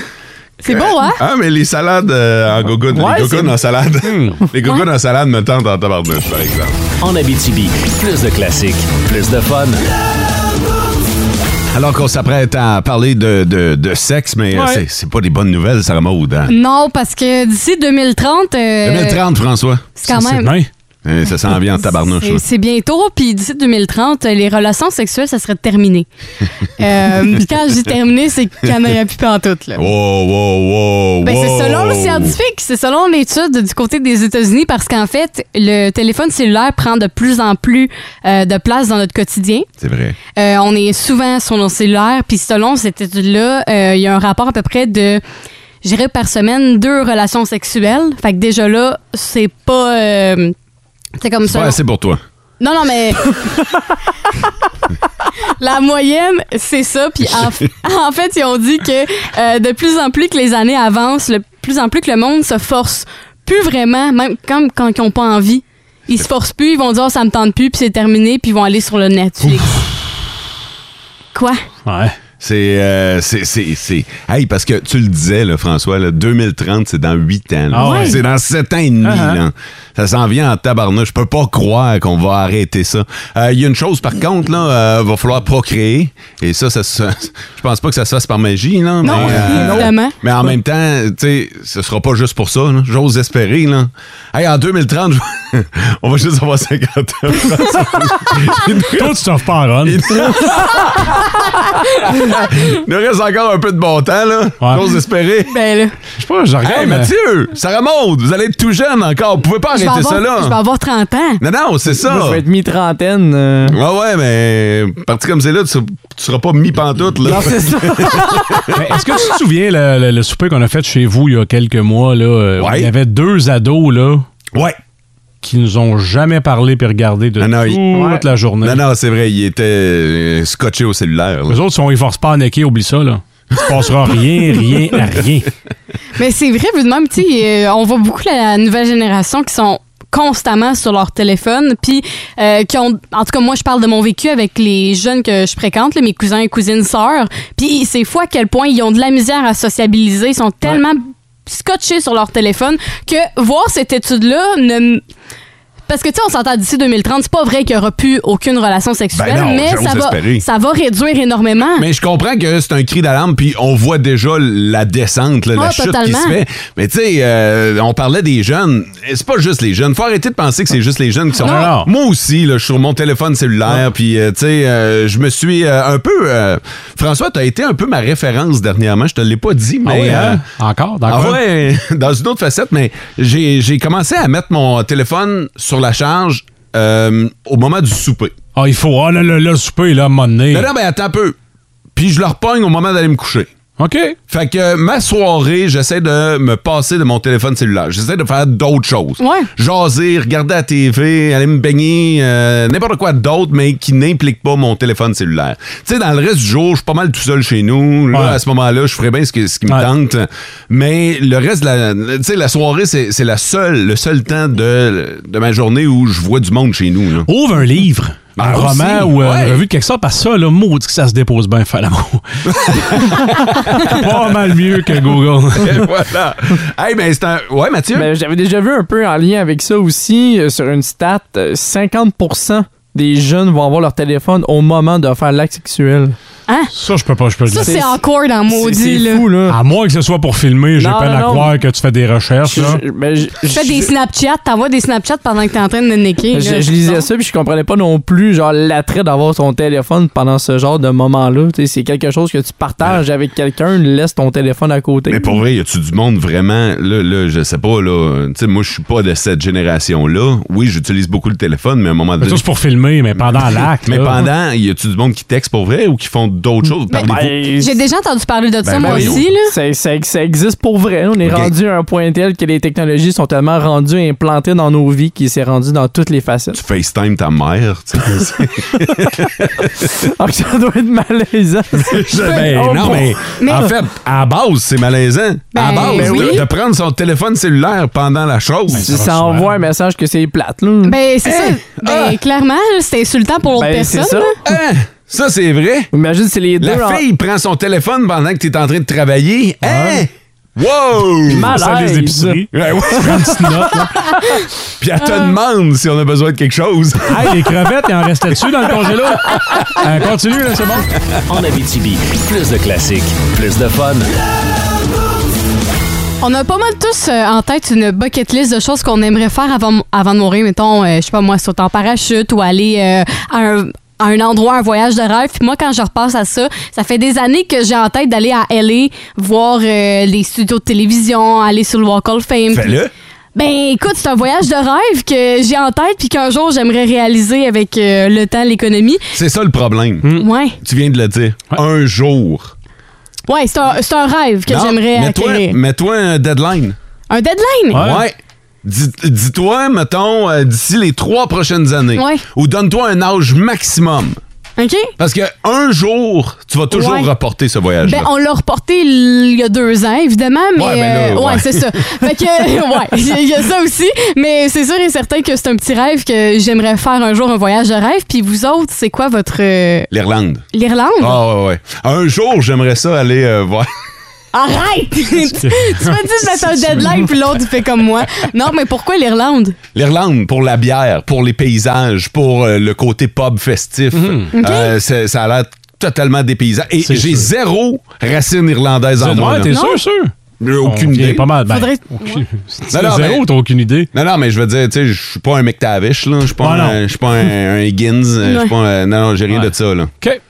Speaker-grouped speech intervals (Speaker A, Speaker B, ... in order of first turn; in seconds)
Speaker A: 0.6-1.2, 16.5-19.2, 20.0-20.6, 21.8-26.1, 26.8-29.9, 31.2-39.7, 40.4-45.2, 45.8-50.5, 51.2-51.8, 52.6-53.4, 55.6-69.8, 71.3-71.6, 77.8-78.2, 89.0-90.2, 105.5-105.9, 109.7-111.4, 136.2-155.0, 155.9-161.8, 165.5-166.4, 199.2-199.5, 236.5-236.7, 237.5-239.2, 243.5-247.1, 266.9-269.5, 283.4-283.7, 285.5-286.4, 290.8-294.3, 316.2-332.8, 333.3-339.0, 340.1-340.6, 343.3-345.6, 347.1-347.8, 351.9-352.2, 354.6-354.9, 356.7-357.1, 357.8-369.9, 370.5-371.2, 374.3-379.6, 384.3-384.7, 389.5-389.8, 391.5-392.2, 398.2-398.5
Speaker B: 0.6-6.8, 11.7-16.5, 18.8-19.9, 21.0-22.4, 29.8-32.4, 39.8-40.2, 51.5-52.2, 69.4-69.7, 72.4-99.2, 99.8-105.5, 106.6-110.6, 111.4-112.4, 113.7-118.9, 122.6-122.9, 124.5-124.8, 127.4-128.1, 128.6-131.6, 159.1-160.4, 161.8-180.4, 181.1-188.3, 190.5-191.3, 191.9-193.5, 194.3-217.3, 218.4-219.7, 222.5-224.2, 225.6-228.1, 255.1-262.4, 263.1-267.3, 268.7-269.2, 271.2-271.5, 276.5-279.9, 281.7-288.9, 291.2-292.2, 294.4-295.9, 296.6-301.6, 302.5-303.9, 304.8-307.5, 309.3-309.6, 332.5-332.9, 339.1-342.5, 344.5-346.8, 347.7-354.2, 355.0-358.1, 360.6-362.0, 369.9-370.4, 371.0-373.7, 376.5-376.9, 379.7-389.5, 390.4-391.3, 392.7-393.3, 393.9-399.9
Speaker C: 2.9-3.5, 112.0-113.8, 117.2-118.7, 127.9-128.2, 227.9-236.1, 237.6-239.6, 240.8-241.5, 242.4-243.9, 246.3-255.4, 267.0-267.7, 268.8-276.6, 280.0-283.1, 285.7-286.4, 288.8-290.9, 293.6-294.4, 295.9-297.0, 301.3-302.4
Speaker D: 4.0-4.4, 14.5-14.8, 20.1-20.7, 71.8-72.2, 77.7-78.2, 79.0-79.4, 89.1-89.5, 98.9-100.2, 106.2-107.1, 118.7-124.2, 125.4-128.8, 131.5-135.5, 171.4-171.9, 179.8-181.4, 188.5-190.7, 193.8-194.2, 208.1-208.4, 217.2-225.9, 236.7-237.8, 239.5-242.8, 262.2-264.3, 288.7-289.5, 299.6-300.0, 301.5-304.0, 307.1-310.9, 347.7-348.0, 375.3-376.0, 383.9-384.3, 386.8-387.3, 389.0-390.1, 390.6-393.9, 396.4-396.8, 399.3-400.2
Speaker E: 7.0-9.8, 311.3-314.1